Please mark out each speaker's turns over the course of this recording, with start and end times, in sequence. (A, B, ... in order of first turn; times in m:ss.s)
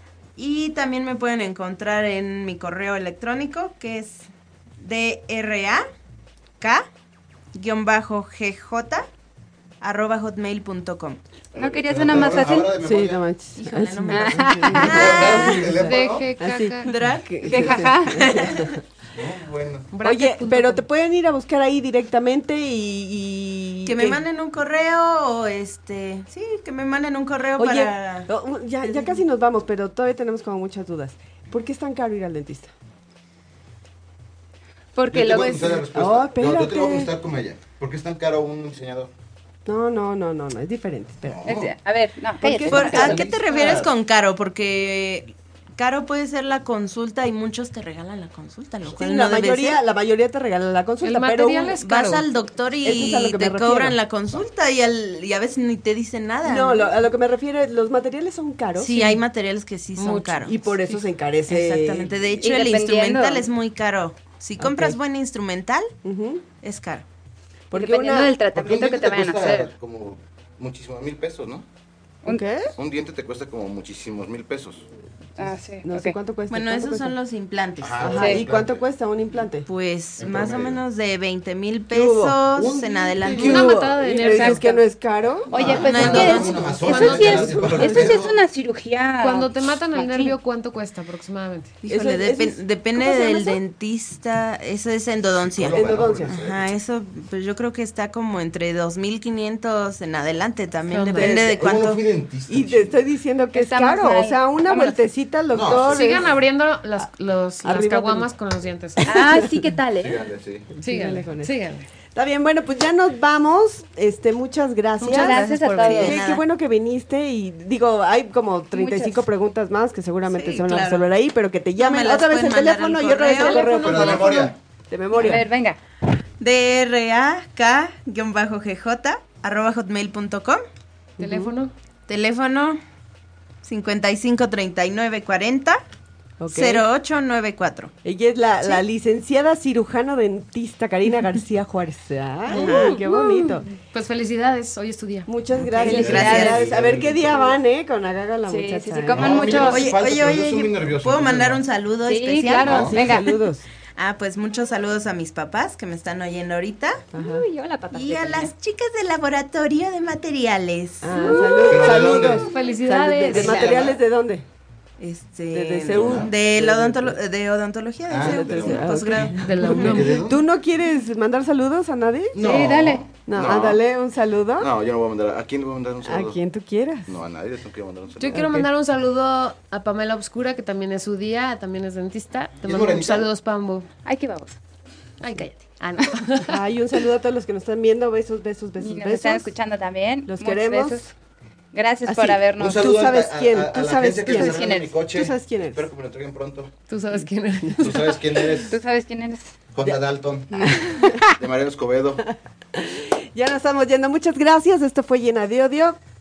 0:00.4-0:04.3 A
0:04.8-0:05.8 A
0:06.6-0:06.9 A
0:07.5-0:09.1 A
0:09.8-0:11.2 A
0:11.5-0:13.2 B
0:11.5-0:12.8 C
0:12.1-0:18.8 D
0:13.6-0:15.8 A
0:14.1-0:15.6 C
0:14.7-0:16.3 B
0:15.0-0:16.9 E
0:16.8-0:18.7 A
0:17.4-0:18.4 C
0:19.1-0:19.9 B
0:19.9-0:20.8 E
0:20.0-0:24.2 D
0:23.8-0:28.3 A
0:27.6-0:32.7 D
0:28.8-0:29.2 A
0:34.9-0:35.9 C
0:35.1-0:39.1 B
0:35.6-0:37.1 D
0:39.6-0:41.7 D
0:41.2-0:41.7 B
0:41.4-0:43.2 C
0:42.4-0:43.8 D
0:42.6-0:49.8 A
0:42.8-0:43.9 B
0:48.9-0:51.8 D
0:51.0-0:52.2 E
0:51.8-0:56.9 A
0:52.8-0:54.0 D
0:56.4-0:59.2 D
0:58.8-1:00.8 A
1:00.0-1:01.0 E
1:00.4-1:02.1 D
1:01.5-1:05.9 A
1:02.4-1:03.5 C
1:04.6-1:05.0 D
1:06.0-1:06.4 D
1:06.6-1:07.0 A
1:07.7-1:08.3 D
1:07.7-1:09.7 C
1:08.5-1:11.6 B
1:12.2-1:12.7 D
1:12.8-1:14.9 B
1:15.4-1:17.1 D
1:15.4-1:16.2 C
1:16.5-1:18.2 A
1:17.8-1:18.8 B
1:18.0-1:19.7 D
1:18.1-1:18.4 C
1:19.6-1:23.9 A
1:20.2-1:20.8 B
1:21.9-1:22.3 D
1:22.6-1:23.7 B
1:23.2-1:28.2 D
1:23.3-1:24.8 E
1:24.1-1:24.8 C
1:25.5-1:28.4 B
1:25.5-1:30.4 C
1:25.8-1:26.9 A
1:29.2-1:31.7 E
1:31.8-1:42.0 A
1:31.9-1:33.6 D
1:35.4-1:36.7 B
1:35.7-1:36.4 D
1:40.9-1:41.4 E
1:41.1-1:41.9 D
1:41.4-1:43.0 B
1:42.5-1:46.3 D
1:43.5-1:45.0 C
1:45.5-1:46.4 B
1:45.9-1:49.4 E
1:47.6-1:48.3 D
1:49.0-1:49.4 D
1:49.1-1:50.2 C
1:50.0-1:50.7 B
1:50.7-1:51.5 D
1:50.8-1:51.9 E
1:52.1-2:05.5 D
1:55.0-1:56.4 A
1:55.0-1:56.2 C
1:58.7-1:59.3 C
2:00.3-2:01.1 A
2:01.8-2:03.7 A
2:03.4-2:04.5 E
2:03.8-2:04.6 B
2:05.1-2:05.8 C
2:06.4-2:10.6 A
2:11.2-2:11.5 D
2:11.2-2:11.7 E
2:12.1-2:12.8 A
2:13.6-2:15.8 A
2:16.4-2:16.9 D
2:16.5-2:17.9 A
2:18.0-2:23.7 D
2:22.5-2:23.0 A
2:22.5-2:23.1 E
2:23.1-2:23.5 C
2:23.8-2:25.7 E
2:25.3-2:29.8 D
2:25.8-2:26.6 A
2:25.8-2:27.6 B
2:25.8-2:26.6 C
2:28.4-2:29.9 C
2:29.1-2:31.6 B
2:29.5-2:32.9 A
2:32.1-2:33.5 C
2:32.6-2:33.0 B
2:32.7-2:33.6 D
2:34.0-2:37.0 A
2:37.1-2:37.4 D
2:37.1-2:38.5 C
2:37.9-2:41.2 A
2:41.0-2:44.4 D
2:41.1-2:41.9 C
2:41.2-2:43.7 E
2:41.6-2:42.5 B
2:43.3-2:44.0 A
2:43.6-2:44.0 B
2:45.0-2:50.1 A
2:45.5-2:47.2 D
2:45.9-2:46.3 B
2:48.1-2:50.5 B
2:48.2-2:52.6 D
2:49.4-2:50.3 E
2:52.3-2:53.8 B
2:52.4-2:53.0 C
2:53.3-2:54.7 D
2:54.6-2:56.4 B
2:56.0-2:57.1 D
2:57.0-2:58.5 B
2:58.2-3:03.9 E
2:58.3-2:58.7 D
3:02.6-3:03.3 B
3:04.0-3:04.6 C
3:05.2-3:06.6 E
3:06.4-3:09.5 D
3:08.8-3:11.1 C
3:10.3-3:11.0 D
3:11.7-3:12.8 C
3:12.1-3:15.9 D
3:12.6-3:16.7 B
3:14.3-3:14.9 C
3:16.9-3:18.2 E
3:17.8-3:18.8 B
3:18.7-3:19.6 C
3:19.7-3:22.2 B
3:20.5-3:21.3 C
3:20.8-3:21.1 D
3:22.3-3:26.0 D